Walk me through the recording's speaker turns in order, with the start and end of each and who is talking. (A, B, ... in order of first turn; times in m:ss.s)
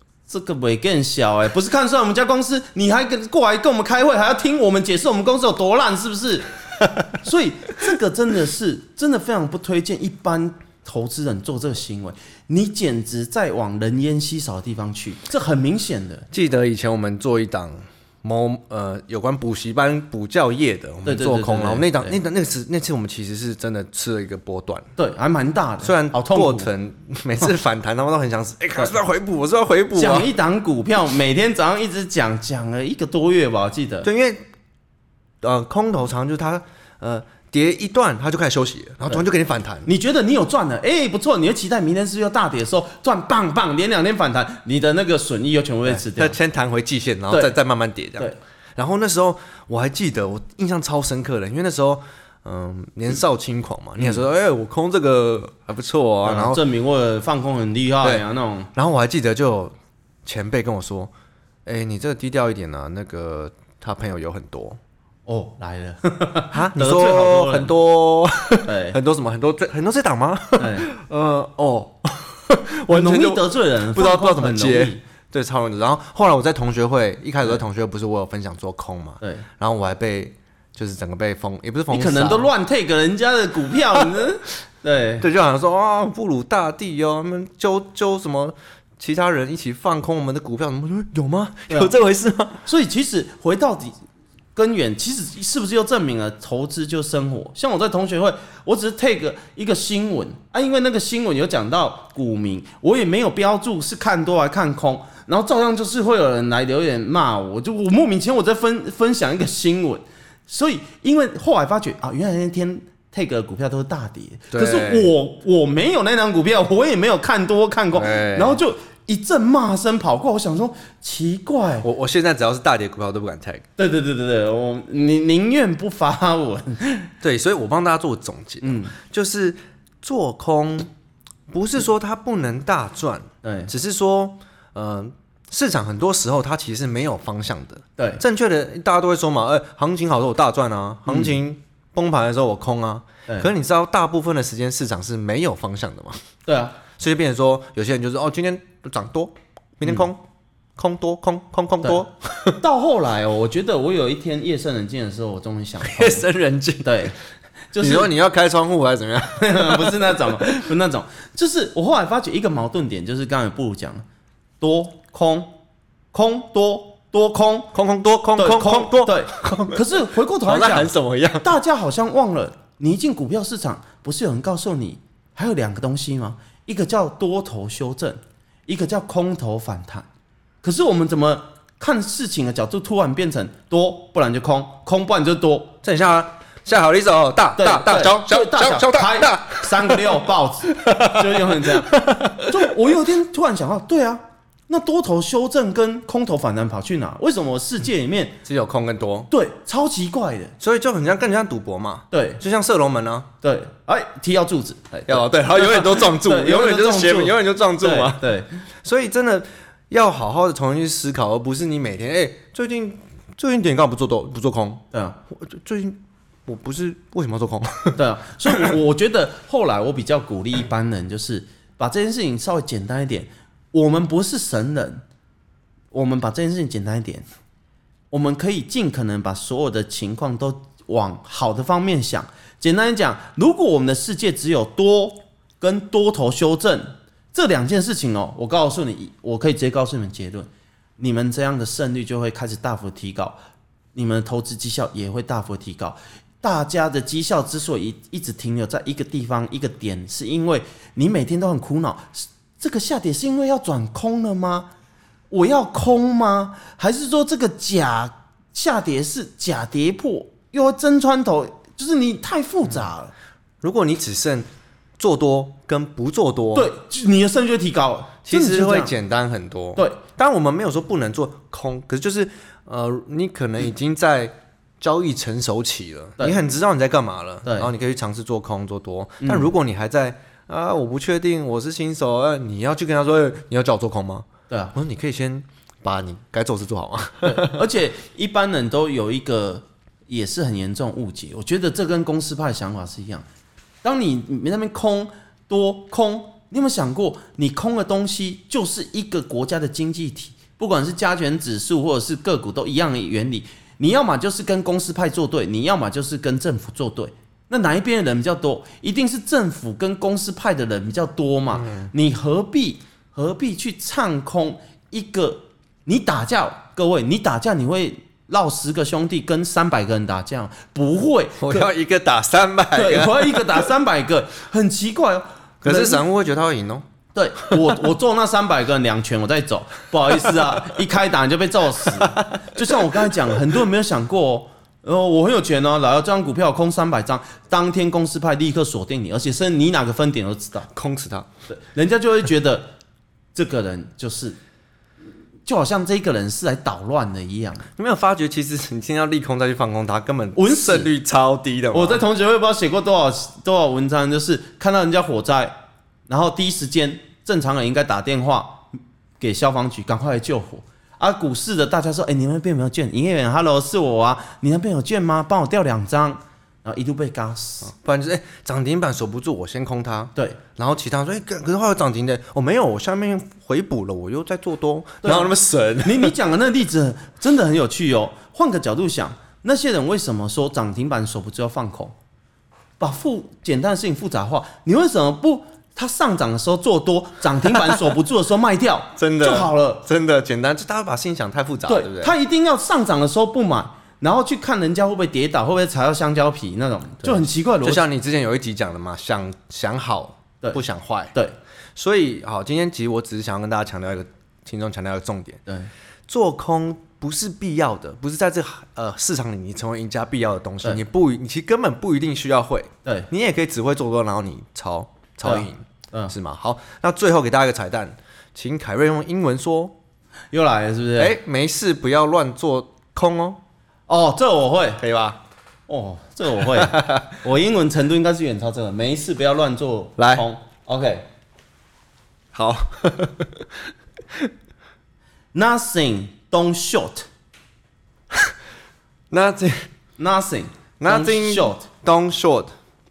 0:00.3-0:06.5 A
0:07.1-0:16.3 A
0:16.3-0:24.9 B
0:21.0-0:22.2 A
0:25.0-0:26.7 A
0:25.8-0:30.3 B
0:30.0-0:34.1 A
0:34.0-0:34.4 B
0:35.4-0:39.9 B
0:39.9-0:46.4 A
0:45.9-0:56.6 B
0:56.2-0:58.7 A
0:58.0-0:59.7 B
1:00.2-1:01.1 B
1:01.7-1:04.8 B
1:05.3-1:07.7 A
1:06.5-1:22.5 B
1:08.6-1:09.0 A
1:10.6-1:10.9 A
1:12.9-1:15.0 A
1:19.2-1:19.5 A
1:21.9-1:25.3 A
1:25.2-1:32.6 B
1:32.6-1:34.0 A
1:34.6-2:01.9 A
1:54.5-1:55.1 B
1:57.9-1:58.6 B
2:01.8-2:03.6 B
2:03.8-2:07.1 A
2:07.2-2:10.9 B
2:08.6-2:09.0 A
2:11.5-2:26.2 B
2:13.4-2:13.7 A
2:21.1-2:21.4 A
2:26.5-2:26.8 A
2:26.9-2:30.2 B
2:30.8-2:32.6 B
2:32.6-2:36.2 A
2:35.8-2:37.1 B
2:36.8-2:37.2 A
2:37.7-2:38.1 A
2:37.8-2:40.7 B
2:39.4-2:44.0 A
2:44.6-2:45.6 A
2:46.1-2:47.7 A
2:47.7-2:51.5 B
2:48.4-3:00.1 A
3:00.6-3:05.8 A
3:05.8-3:12.7 B
3:07.6-3:18.4 A
3:18.4-3:19.3 B
3:19.3-3:20.6 A
3:20.6-3:23.3 B
3:22.1-3:22.4 A
3:23.4-3:28.5 A
3:25.1-3:28.3 B
3:28.8-3:38.7 B
3:34.9-3:35.2 A
3:38.0-3:45.0 A
3:45.9-3:47.3 A
3:48.1-4:03.4 A
4:04.0-4:14.7 A
4:15.3-4:23.1 A
4:23.6-4:24.5 B
4:25.0-4:26.7 B
4:26.5-4:29.0 A
4:28.3-4:47.6 B
4:37.4-4:37.7 A
4:39.2-4:39.5 A
4:44.5-4:44.8 A
4:47.2-4:53.2 A
4:53.8-5:21.7 A
5:11.6-5:11.9 B
5:21.4-5:23.7 B
5:22.7-5:26.0 A
5:25.6-5:26.8 B
5:27.2-5:40.7 A
5:30.1-5:30.4 B
5:31.9-5:33.4 B
5:40.7-5:41.3 B
5:41.5-5:42.7 A
5:43.4-5:44.4 A
5:45.5-5:47.7 A
5:47.8-5:52.0 B
5:50.4-5:50.9 A
5:51.7-5:55.6 A
5:56.1-5:58.7 A
5:59.2-6:07.7 A
6:07.6-6:16.1 B
6:15.0-6:15.3 A
6:15.8-6:22.0 A
6:22.8-6:29.8 A
6:29.0-6:32.1 B
6:31.7-6:37.8 A
6:37.0-6:41.2 B
6:41.8-6:45.4 B
6:46.1-6:59.8 B
6:55.2-6:56.1 A
7:00.3-7:01.2 A
7:01.0-7:03.4 B
7:03.9-7:04.8 A
7:04.8-7:05.2 B
7:05.7-7:11.0 A
7:06.6-7:07.1 B
7:10.0-7:10.2 B
7:12.3-7:14.3 B
7:15.3-7:17.1 A
7:19.1-7:19.7 B
7:20.0-7:21.6 A
7:20.8-7:22.5 B